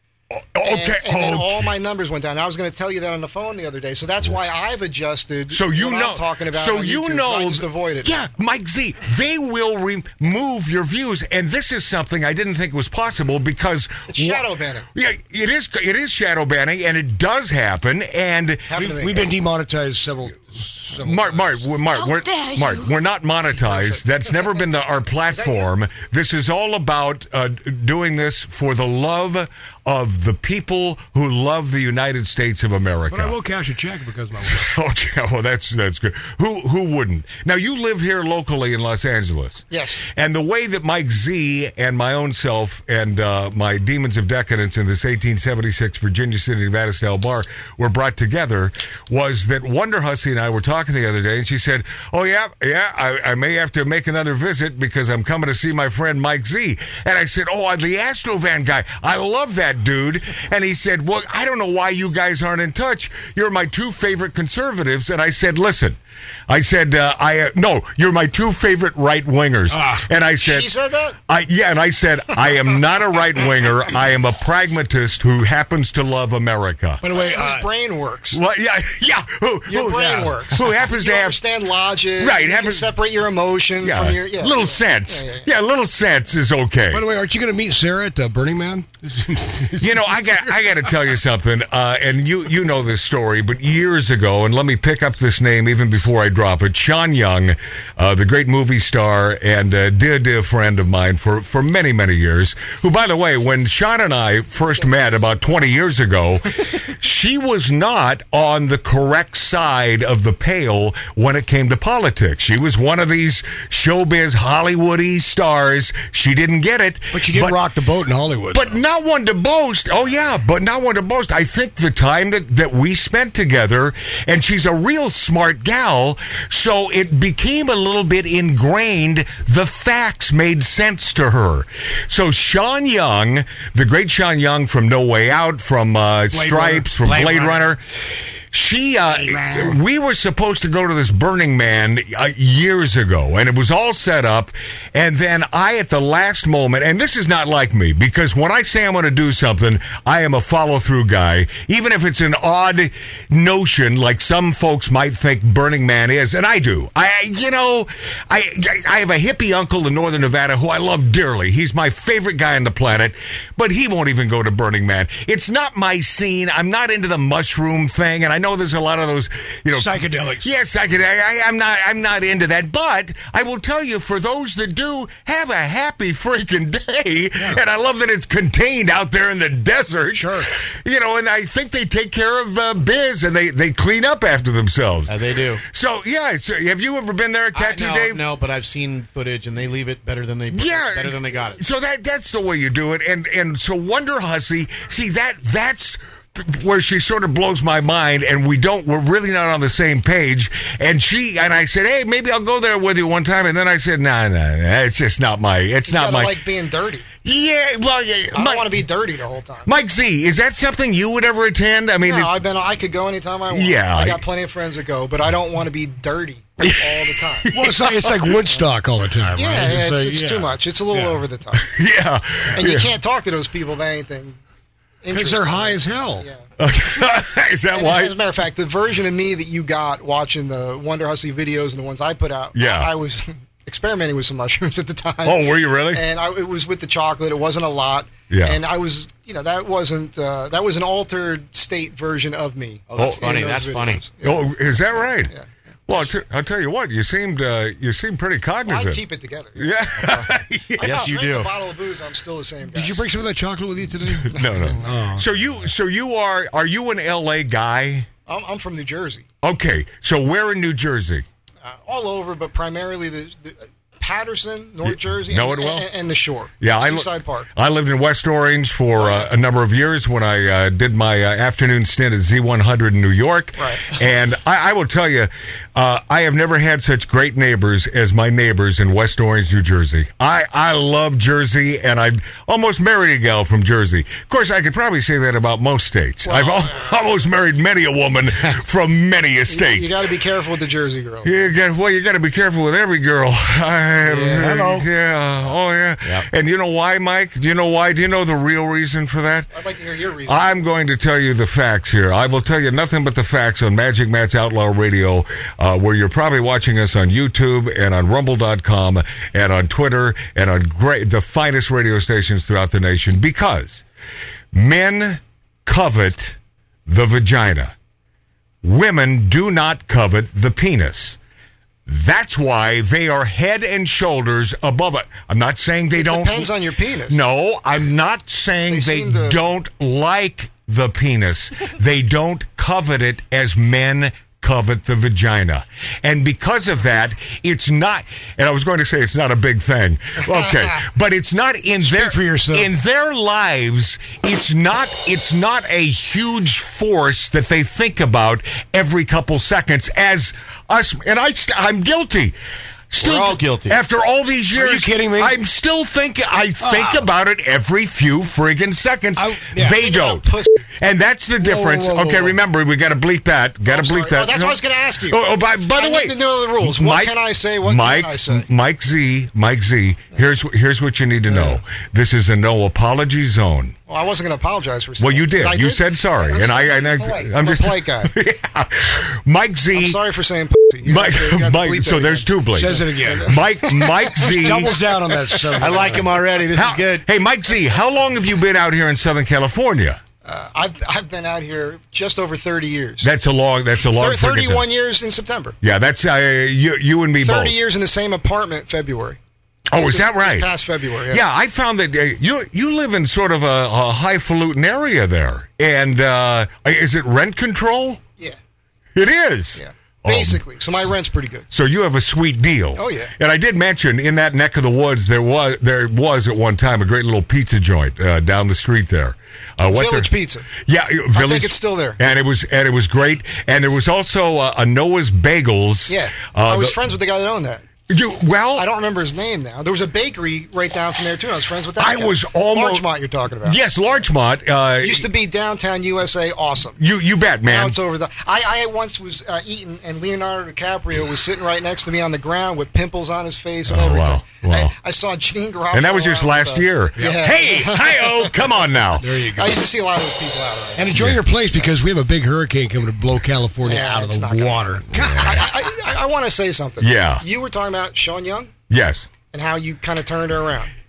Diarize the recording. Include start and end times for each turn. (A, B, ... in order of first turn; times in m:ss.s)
0:00.3-0:01.7 A
0:00.6-0:08.3 B
0:05.5-0:18.9 A
0:14.1-0:14.9 B
0:18.7-0:19.3 B
0:18.8-0:21.6 C
0:21.0-0:33.4 A
0:25.3-0:25.7 B
0:33.1-0:34.6 C
0:34.5-1:10.7 A
0:39.7-0:40.0 B
1:09.7-1:10.0 C
1:10.4-1:11.2 B
1:11.3-1:17.0 A
1:17.0-1:17.7 C
1:17.1-1:18.4 B
1:18.3-1:21.4 A
1:19.7-1:25.5 B
1:22.2-1:22.9 A
1:23.8-1:27.1 A
1:26.9-1:30.5 C
1:29.8-1:57.6 A
1:44.8-1:45.2 B
1:57.1-1:58.7 C
1:58.5-3:08.3 A
2:16.3-2:17.8 C
2:19.2-2:19.7 C
2:49.7-2:50.5 C
3:00.2-3:00.5 C
3:05.1-3:05.6 D
3:07.5-3:11.6 D
3:10.5-3:26.4 A
3:25.9-3:27.1 B
3:27.2-3:28.8 A
3:28.3-3:29.7 B
3:29.7-3:32.3 A
3:32.0-3:37.5 B
3:33.5-3:34.2 A
3:37.4-3:38.4 A
3:37.5-3:41.2 C
3:39.4-3:41.7 B
3:41.6-3:42.9 A
3:42.6-3:44.4 B
3:45.0-3:46.4 B
3:45.1-3:46.3 C
3:46.6-3:48.2 A
3:47.7-4:04.5 B
3:52.5-3:52.9 A
3:55.2-3:56.0 A
3:58.3-3:58.6 A
4:02.9-4:04.1 D
4:03.0-4:03.5 A
4:04.2-4:05.3 A
4:05.3-4:06.1 B
4:05.9-4:09.0 A
4:08.7-4:09.9 B
4:09.6-4:11.1 A
4:10.7-4:13.1 B
4:10.8-4:11.5 D
4:12.7-4:15.3 C
4:14.2-4:18.1 A
4:14.3-4:14.7 B
4:18.3-4:19.3 B
4:19.4-4:21.3 A
4:21.6-4:27.5 B
4:24.8-4:25.9 A
4:26.6-4:50.0 A
4:29.0-4:29.3 B
4:33.6-4:33.9 B
4:46.3-4:46.8 B
4:49.5-4:51.4 B
4:51.2-4:59.5 A
4:54.0-4:54.9 C
4:59.5-5:00.6 B
5:00.3-5:13.8 A
5:14.5-5:17.8 A
5:18.6-5:21.2 A
5:21.9-5:26.5 A
5:26.0-5:27.2 B
5:27.1-5:52.4 A
5:28.7-5:29.4 B
5:41.8-5:42.7 C
5:52.9-6:00.3 A
5:53.0-5:53.8 D
5:54.6-5:55.4 C
5:56.6-5:57.1 C
5:59.2-5:59.8 C
5:59.7-6:00.6 B
6:00.8-6:13.8 A
6:01.4-6:02.4 C
6:03.7-6:08.5 B
6:11.3-6:11.6 B
6:13.9-6:18.1 B
6:15.0-6:20.0 A
6:19.7-6:25.9 B
6:20.8-6:24.9 A
6:22.6-6:23.4 C
6:24.2-6:26.3 C
6:25.6-6:27.1 D
6:26.5-6:30.0 A
6:30.2-6:33.1 B
6:33.0-6:34.7 A
6:33.9-6:35.6 B
6:35.6-6:37.6 A
6:37.2-6:39.2 B
6:39.7-6:40.5 A
6:39.7-6:41.2 B
6:41.1-6:48.0 A
6:49.0-6:50.9 A
6:49.6-6:51.5 B
6:51.5-7:06.8 A
6:52.8-6:53.1 B
6:59.6-7:00.5 B
7:01.1-7:02.0 B
7:05.9-7:07.6 B
7:07.9-7:08.7 A
7:08.6-7:13.6 B
7:11.8-7:12.9 A
7:13.4-7:15.1 A
7:14.8-7:16.8 B
7:16.8-7:17.8 A
7:17.5-7:28.5 B
7:23.7-7:24.7 A
7:25.7-7:29.1 A
7:29.0-7:29.6 C
7:29.3-7:31.0 B
7:30.8-7:35.3 C
7:31.0-7:31.2 A
7:33.6-7:38.5 B
7:36.8-7:37.2 A
7:38.7-7:39.1 A
7:39.3-7:40.7 B